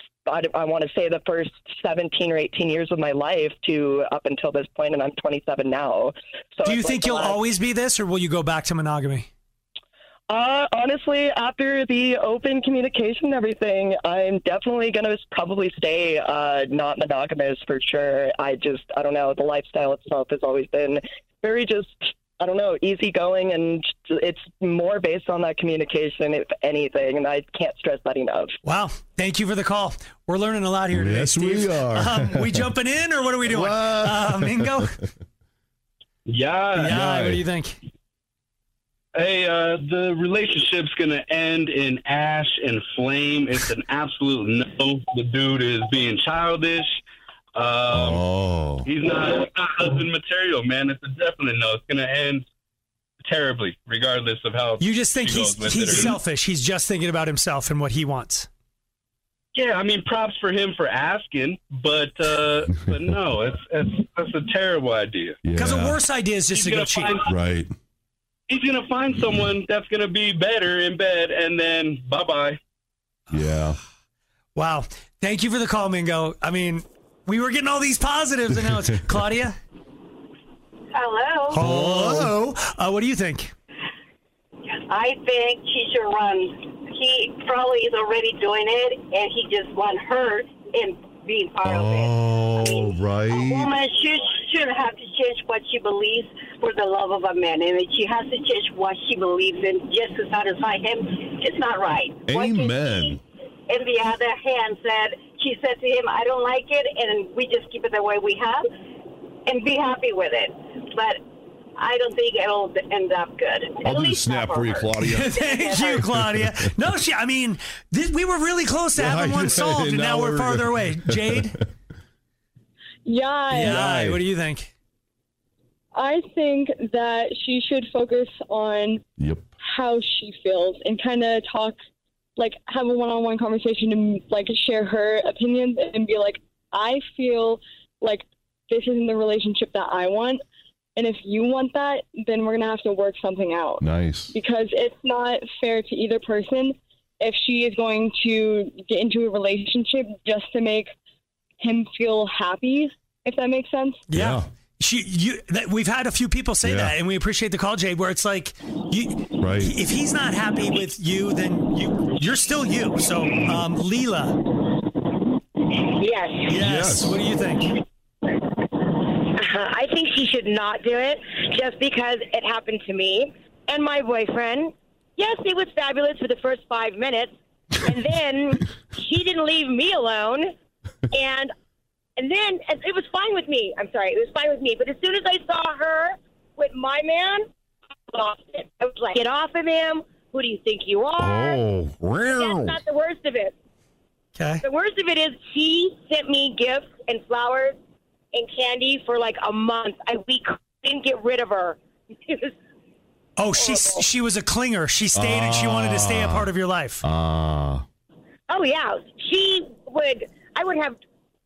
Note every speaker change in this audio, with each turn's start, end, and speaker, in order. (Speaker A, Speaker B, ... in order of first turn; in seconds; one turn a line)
Speaker A: 0.3-7.4
Speaker B: 6.7-9.3
Speaker A: 10.3-28.5
Speaker B: 28.6-34.9
Speaker C: 30.9-32.7
Speaker C: 33.5-34.9
Speaker D: 36.3-36.9
Speaker B: 36.8-37.8
Speaker C: 36.8-37.4
Speaker D: 39.1-47.0
Speaker D: 47.6-48.2
Speaker C: 47.9-48.9
Speaker D: 48.9-52.5
Speaker D: 53.2-56.2
Speaker B: 54.8-58.5
Speaker D: 59.5-65.4
Speaker C: 62.8-63.1
Speaker C: 65.4-66.0
Speaker B: 65.6-67.2
Speaker D: 66.5-67.3
Speaker C: 67.2-67.7
Speaker D: 68.5-72.6
Speaker C: 73.3-73.8
Speaker B: 74.5-79.6
Speaker C: 78.5-79.0
Speaker E: 80.9-81.6
Speaker B: 81.5-83.5
Speaker C: 81.5-82.3
Speaker E: 84.7-103.2
Speaker C: 91.6-93.7
Speaker C: 102.3-103.2
Speaker E: 103.7-108.7
Speaker E: 109.5-111.2
Speaker E: 111.8-116.0
Speaker C: 113.8-116.7
Speaker B: 115.0-121.6
Speaker C: 119.0-121.7
Speaker F: 123.0-123.8
Speaker B: 123.5-124.7
Speaker C: 123.5-124.2
Speaker F: 125.9-129.0
Speaker C: 129.2-129.5
Speaker F: 129.6-131.8
Speaker F: 132.4-140.4
Speaker F: 141.0-150.9
Speaker C: 143.8-144.4
Speaker F: 151.6-154.0
Speaker B: 154.1-164.4
Speaker C: 154.1-154.5
Speaker C: 156.6-157.0
Speaker C: 159.4-159.8
Speaker G: 165.9-166.5
Speaker B: 166.5-167.7
Speaker C: 166.6-167.2
Speaker G: 169.2-180.5
Speaker G: 181.1-181.5
Speaker G: 182.2-187.5
Speaker G: 188.1-191.6
Speaker C: 191.2-192.8
Speaker G: 192.3-193.5
Speaker B: 194.4-194.6
Speaker G: 194.6-197.8
Speaker G: 198.3-202.6
Speaker B: 203.4-207.0
Speaker G: 203.6-204.0
Speaker C: 205.1-206.5
Speaker C: 207.0-207.8
Speaker G: 208.5-211.0